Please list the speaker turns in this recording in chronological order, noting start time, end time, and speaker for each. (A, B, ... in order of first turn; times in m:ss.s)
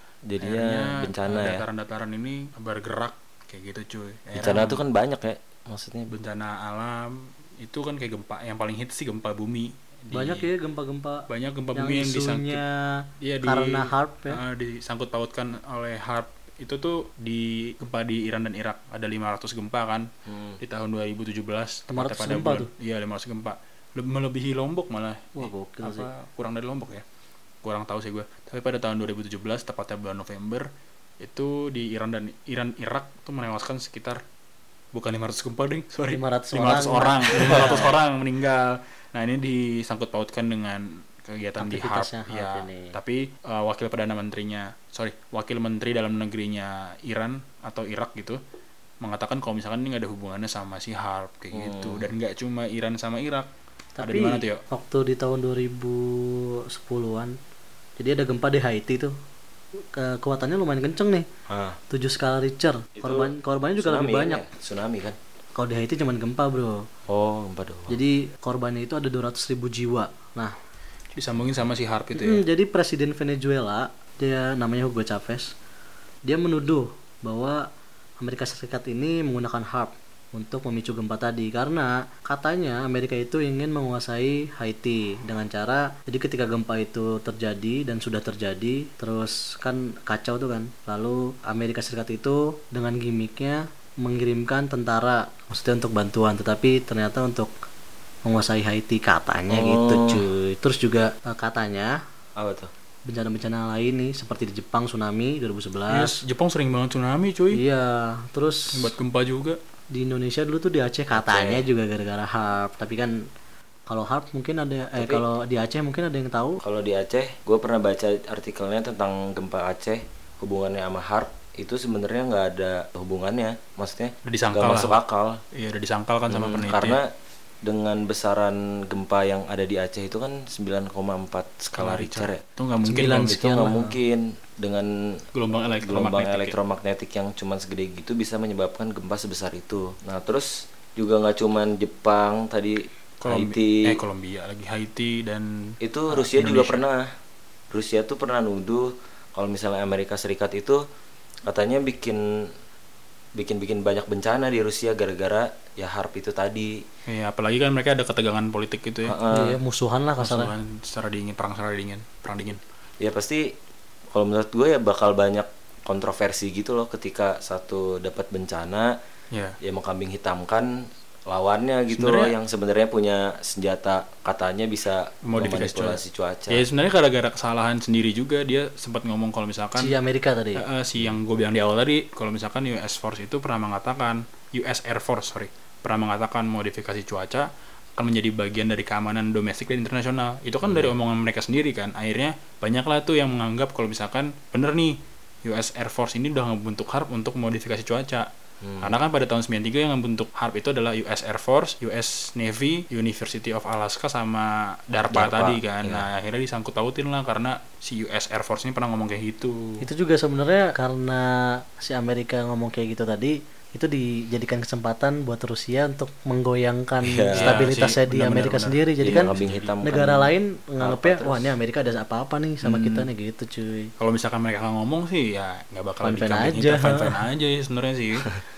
0:00.3-0:01.6 A
0:00.4-0:04.8 B
0:04.3-0:06.1 A
0:06.1-0:10.5 B
0:10.1-0:14.4 C
0:11.3-0:12.6 B
0:13.2-0:20.1 B
0:20.2-0:20.6 A
0:20.6-0:27.0 B
0:21.9-0:22.7 C
0:25.4-0:26.1 C
0:27.6-0:30.7 B
0:31.2-0:34.2 B
0:34.9-0:48.4 B
0:36.1-0:37.9 C
0:37.5-0:37.9 A
0:41.6-0:43.0 C
0:49.0-0:54.6 B
0:51.5-0:52.1 A
0:54.0-0:57.4 C
0:58.0-0:59.1 C
0:59.8-1:01.3 C
1:01.5-1:01.8 A
1:01.9-1:04.5 C
1:03.0-1:05.2 A
1:05.6-1:06.9 C
1:07.1-1:08.0 A
1:07.9-1:10.6 C
1:11.2-1:12.4 B
1:12.2-1:15.5 C
1:16.2-1:17.6 C
1:18.2-1:37.5 C
1:38.3-1:42.0 C
1:39.5-1:40.2 A
1:42.4-1:42.7 A
1:43.1-1:46.2 C
1:45.9-1:47.6 B
1:47.5-1:48.9 C
1:48.7-1:49.6 B
1:49.9-1:53.2 C
1:51.1-1:51.7 A
1:53.9-1:56.6 C
1:55.0-1:55.3 A
1:56.6-2:05.4 A
2:04.2-2:05.0 B
2:05.5-2:07.0 B
2:06.3-2:07.1 A
2:07.6-2:12.4 A
2:11.8-2:13.4 B
2:12.8-2:14.0 C
2:13.2-2:15.2 A
2:15.3-2:16.6 B
2:15.8-2:24.0 A
2:23.2-2:26.8 B
2:25.8-2:27.1 A
2:27.7-2:30.8 A
2:31.5-2:32.5 A
2:33.4-2:36.8 A
2:37.1-2:39.2 B
2:39.0-2:39.6 A
2:39.3-2:40.5 C
2:40.2-2:42.6 B
2:43.0-2:43.5 A
2:44.1-2:48.9 A
2:49.3-2:49.6 B
2:49.6-2:56.7 A
2:51.9-2:52.3 B
2:55.2-3:00.0 B
2:59.8-3:00.6 C
3:00.6-3:18.3 B
3:10.6-3:11.0 A
3:18.6-3:19.0 A
3:18.8-3:29.8 B
3:25.1-3:26.1 A
3:29.8-3:43.9 C
3:37.0-3:37.6 A
3:37.4-3:39.8 B
3:39.0-3:41.5 A
3:42.7-3:43.0 A
3:44.0-3:48.4 B
3:46.0-3:47.2 C